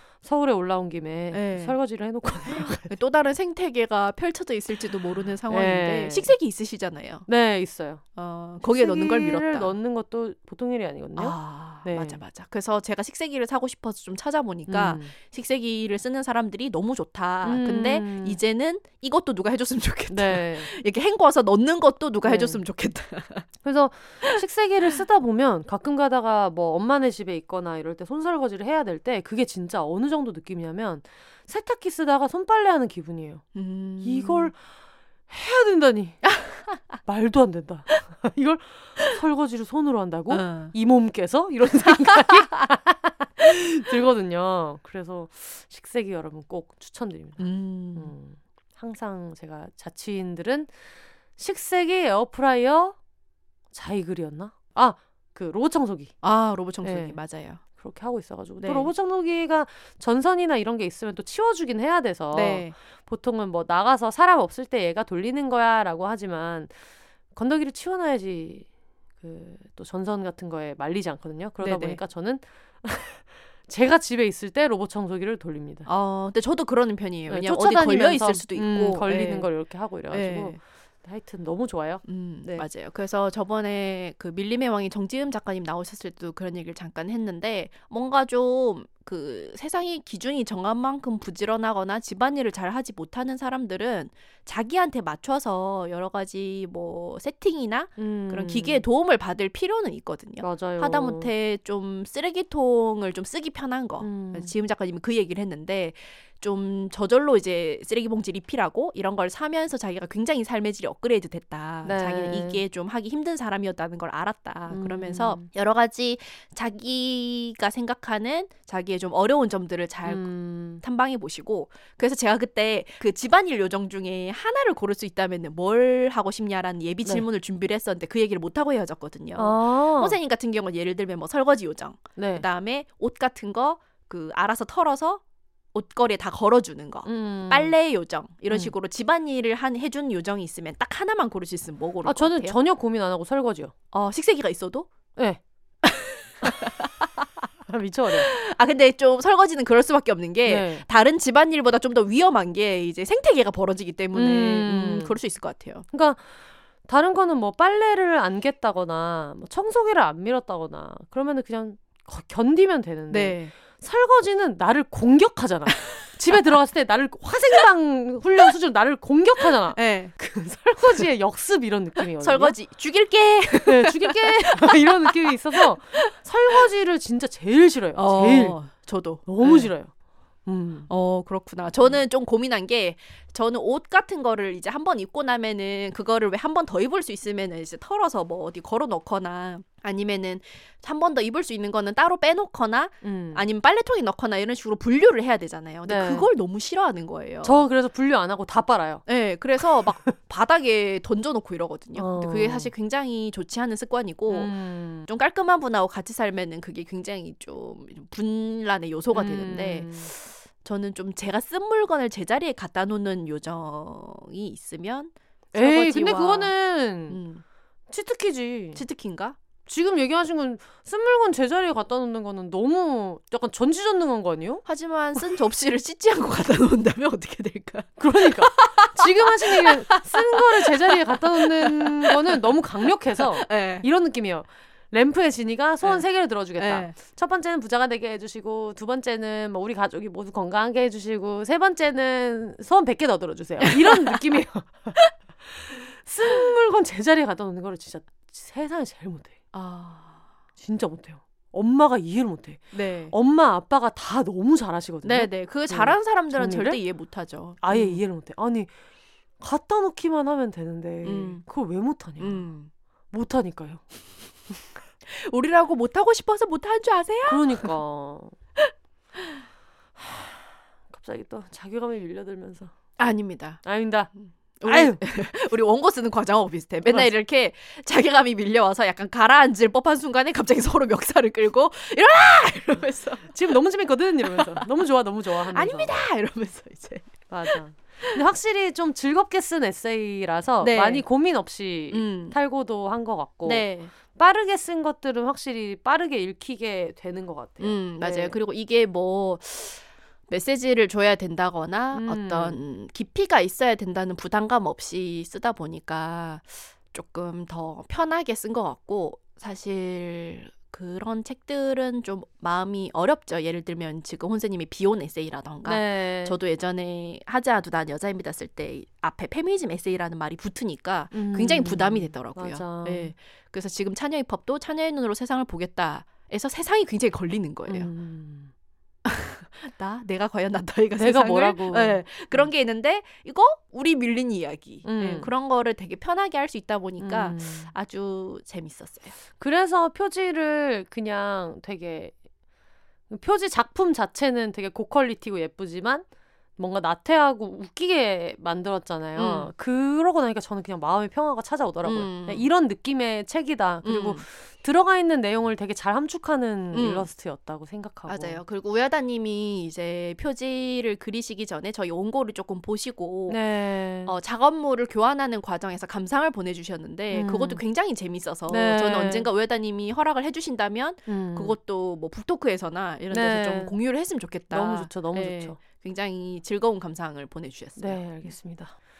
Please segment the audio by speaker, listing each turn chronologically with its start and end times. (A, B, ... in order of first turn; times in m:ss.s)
0:00.2-0:02.9 A
0:01.3-0:01.7 B
0:02.5-0:07.3 B
0:05.5-0:06.3 A
0:07.3-0:08.0 A
0:08.1-0:09.7 B
0:08.6-0:12.2 A
0:11.2-0:23.5 B
0:14.7-0:15.1 A
0:17.4-0:18.4 A
0:20.1-0:20.7 A
0:22.2-0:22.6 A
0:23.6-0:33.4 A
0:33.5-0:34.5 B
0:34.0-0:34.6 A
0:35.3-0:36.4 A
0:36.3-0:36.7 B
0:37.0-0:47.4 A
0:40.3-0:40.7 B
0:41.9-0:42.6 B
0:47.4-0:48.1 B
0:47.9-0:53.0 A
0:53.7-0:56.1 A
0:56.2-0:57.6 B
0:56.8-0:57.2 A
0:57.8-1:06.8 A
0:58.6-0:58.9 B
1:02.3-1:02.7 B
1:07.3-1:08.7 A
1:09.2-1:15.9 A
1:11.6-1:12.0 B
1:15.8-1:19.5 B
1:17.3-1:22.6 A
1:20.1-1:20.6 B
1:22.0-2:15.2 B
1:38.0-1:38.8 A
1:40.4-1:41.3 A
1:44.0-1:44.5 A
1:51.8-1:52.6 A
1:54.7-1:55.4 A
2:00.0-2:00.8 A
2:09.4-2:10.2 A
2:12.2-2:12.4 A
2:15.7-2:22.6 B
2:17.0-2:17.7 A
2:22.0-2:23.7 A
2:23.9-2:24.9 B
2:25.2-2:25.4 A
2:25.8-2:27.1 B
2:27.7-2:28.3 A
2:28.1-2:35.8 B
2:30.4-2:30.8 A
2:34.1-2:35.1 A
2:35.9-2:52.6 A
2:43.1-2:43.5 B
2:49.7-2:50.1 B
2:52.2-2:56.1 B
2:53.7-2:58.6 A
2:58.0-2:59.7 B
2:59.2-2:59.9 A
3:00.4-3:00.9 A
3:00.9-3:17.6 B
3:13.0-3:13.4 A
3:15.8-3:16.3 A
3:17.4-3:19.0 A
3:19.0-3:36.5 B
3:19.6-3:20.1 A
3:21.9-3:22.7 A
3:24.3-3:25.0 A
3:29.1-3:30.1 A
3:35.5-3:37.2 A
3:37.1-3:37.4 B
3:37.9-3:38.8 A
3:38.7-3:39.4 B
3:39.6-3:44.6 A
3:44.6-3:52.4 B
3:48.0-4:09.4 A
3:53.2-3:53.9 B
3:55.8-3:57.0 B
4:03.6-4:04.2 B
4:09.5-4:10.2 B
4:10.6-4:16.8 A
4:12.7-4:13.1 B
4:15.0-4:18.0 B
4:17.6-4:18.7 A
4:19.4-4:22.5 A
4:21.0-4:21.4 B
4:22.2-4:22.7 B
4:23.1-4:23.8 A
4:25.0-4:27.7 B
4:27.2-4:28.4 A
4:28.6-4:29.4 B
4:30.0-4:32.7 A
4:33.0-4:33.6 B
4:33.6-4:34.1 A
4:34.6-4:43.6 B
4:34.6-4:35.0 A
4:36.9-4:37.1 A
4:43.3-4:45.9 A
4:44.2-4:44.7 B
4:45.5-4:48.2 B
4:47.3-4:58.3 A
4:50.6-4:51.0 B
4:51.9-4:52.4 B
4:53.4-4:53.9 B
4:57.6-5:27.9 B
5:01.9-5:02.6 A
5:15.6-5:16.4 A
5:21.1-5:23.1 A
5:27.7-5:28.5 A
5:29.0-5:39.2 B
5:31.0-5:32.5 A
5:34.8-5:35.3 A
5:37.0-5:37.7 A
5:39.4-5:42.1 A
5:43.1-5:46.0 A
5:46.6-5:58.4 A
5:49.2-5:49.5 B
5:51.8-5:52.4 B
5:53.8-5:54.2 B
5:56.7-5:57.1 B
5:58.1-6:03.4 B
6:03.3-6:04.1 A
6:04.0-6:18.3 B
6:07.1-6:07.6 A
6:08.5-6:09.3 A
6:11.1-6:11.5 A
6:13.1-6:13.7 A
6:14.5-6:15.6 A
6:17.8-6:18.8 A